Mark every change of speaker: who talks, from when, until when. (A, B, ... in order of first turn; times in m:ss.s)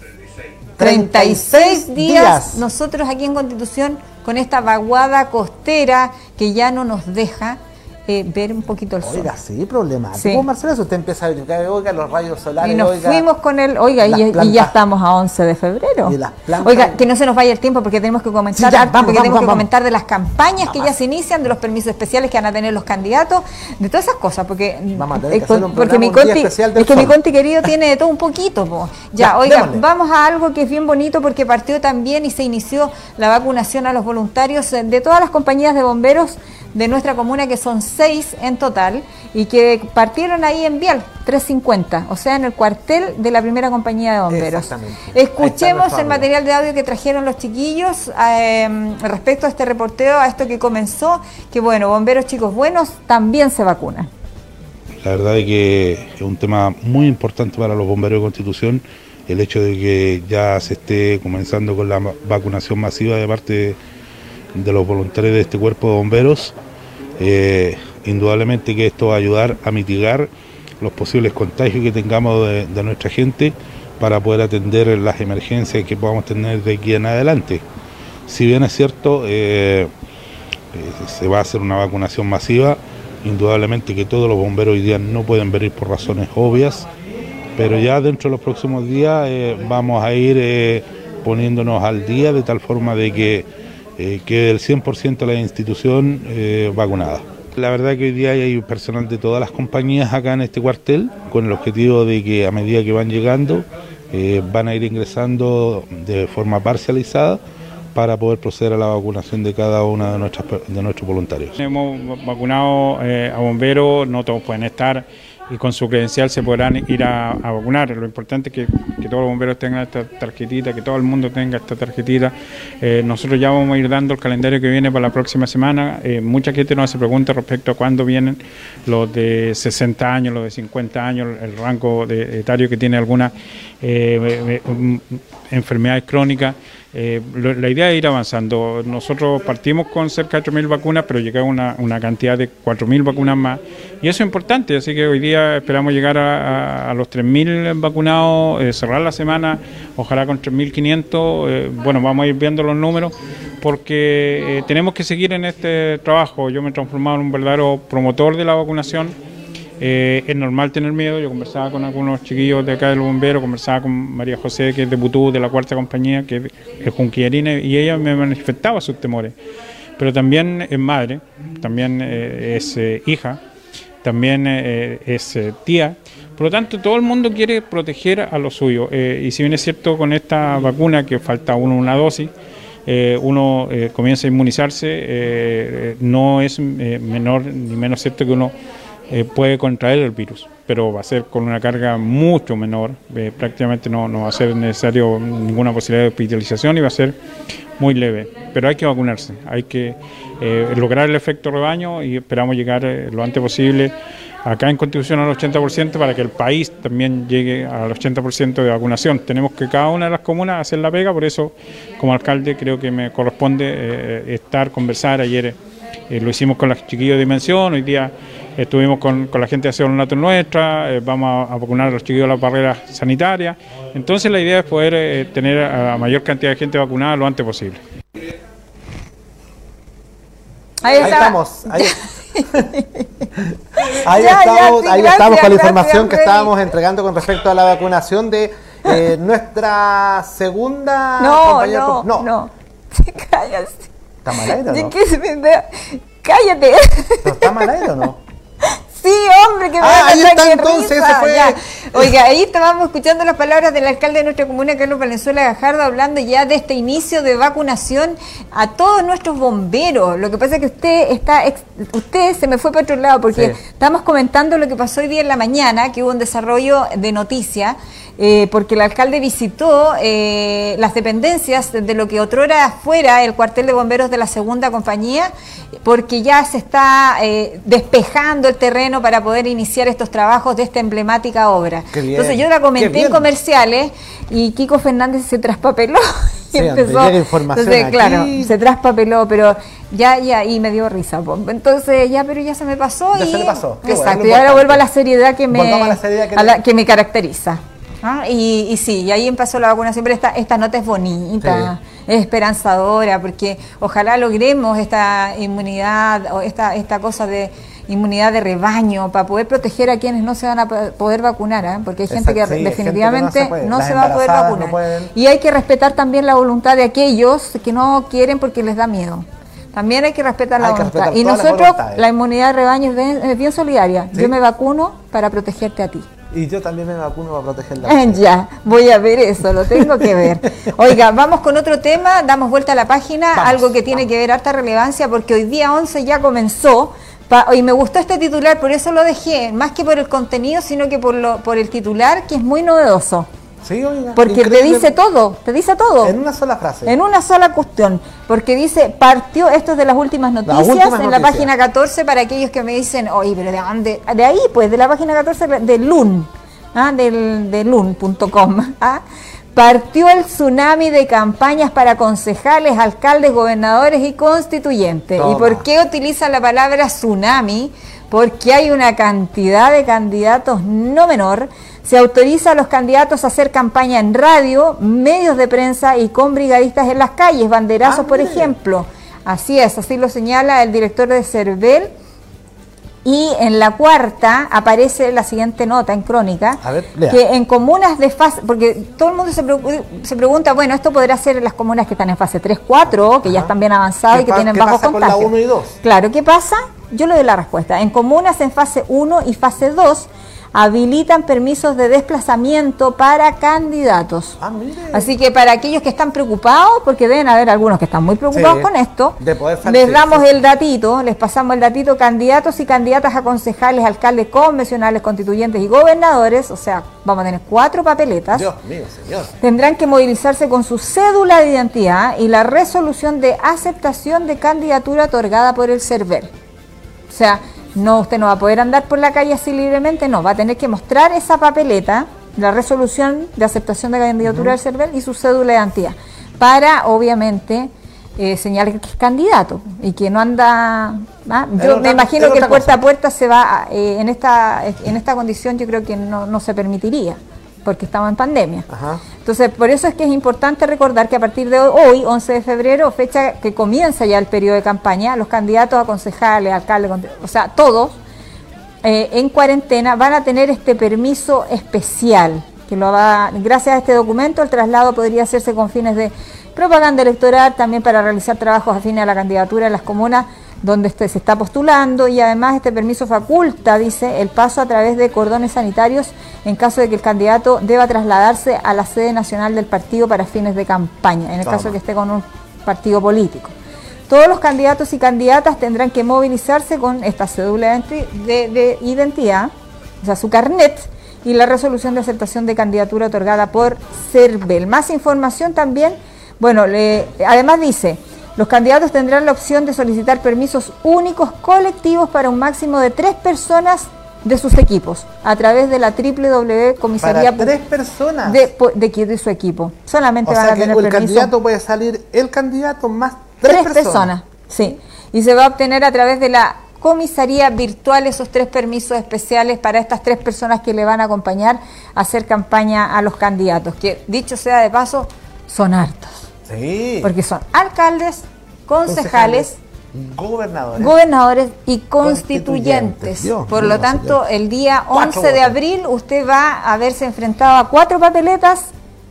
0:00.8-0:02.6 A
0:00.8-0:09.3 B
0:09.0-0:13.2 A
0:10.2-0:10.4 B
0:12.6-0:54.1 B
0:14.0-0:14.7 A
0:16.0-0:17.0 A
0:18.5-0:19.7 A
0:20.6-0:20.9 A
0:24.9-0:27.2 A
0:29.2-0:29.8 A
0:44.3-0:46.3 A
0:55.0-1:03.8 C
1:04.5-1:06.6 C
1:07.2-1:17.6 C
1:18.3-1:19.9 C
1:20.7-1:26.9 C
1:27.6-1:47.4 C
1:47.9-1:51.6 C
1:51.6-2:39.2 D
2:39.8-2:49.3 D
2:50.0-2:53.4 D
2:54.0-3:02.3 D
3:02.8-3:08.5 D
3:09.1-3:17.2 D
3:17.8-3:23.9 D
3:24.4-3:35.6 D
3:36.1-3:47.8 D
3:50.8-3:53.1 B
3:51.0-3:52.0 A
3:53.4-4:02.3 A
3:53.9-3:56.5 B
4:01.2-4:03.9 B
4:04.2-4:04.9 A
4:04.6-4:07.6 B
4:07.2-4:08.2 A
4:08.6-4:35.3 B
4:09.8-4:12.1 A
4:23.3-4:23.6 A
4:35.8-5:26.1 B
4:41.9-4:43.3 A
4:46.5-4:48.5 A
4:53.1-4:54.8 A
4:55.5-4:56.6 A
5:01.4-5:01.7 A
5:12.1-5:15.1 A
5:20.6-5:22.0 A
5:26.3-5:28.2 A
5:27.8-5:43.3 B
5:29.7-5:30.7 A
5:33.3-5:34.0 A
5:43.6-5:44.9 A
5:44.2-5:46.2 B
5:46.0-5:46.9 A
5:46.8-5:59.0 B
5:50.4-5:51.5 A
5:59.5-6:21.9 B
6:05.1-6:05.6 A
6:17.8-6:18.5 A
6:23.0-6:44.4 B
6:26.6-6:27.2 A
6:32.9-6:33.5 A
6:34.1-6:35.8 A
6:44.4-6:45.1 A
6:44.9-6:58.5 B
6:48.3-6:50.3 A
6:58.3-6:59.4 A
6:59.4-7:06.3 B
7:07.1-7:28.7 B
7:14.2-7:14.6 A
7:21.6-7:22.8 A
7:28.7-7:29.0 A
7:29.2-7:38.0 B
7:38.8-8:03.5 B
8:01.4-8:01.8 A
8:04.1-8:27.5 B
8:27.0-8:28.4 A
8:28.2-8:31.3 B
8:30.2-8:34.1 A
8:33.5-8:46.3 B
8:46.5-8:47.1 A
8:47.0-8:49.6 B
8:48.9-8:51.0 A
8:50.8-8:58.7 B
8:52.0-8:54.2 A
8:54.9-8:55.6 A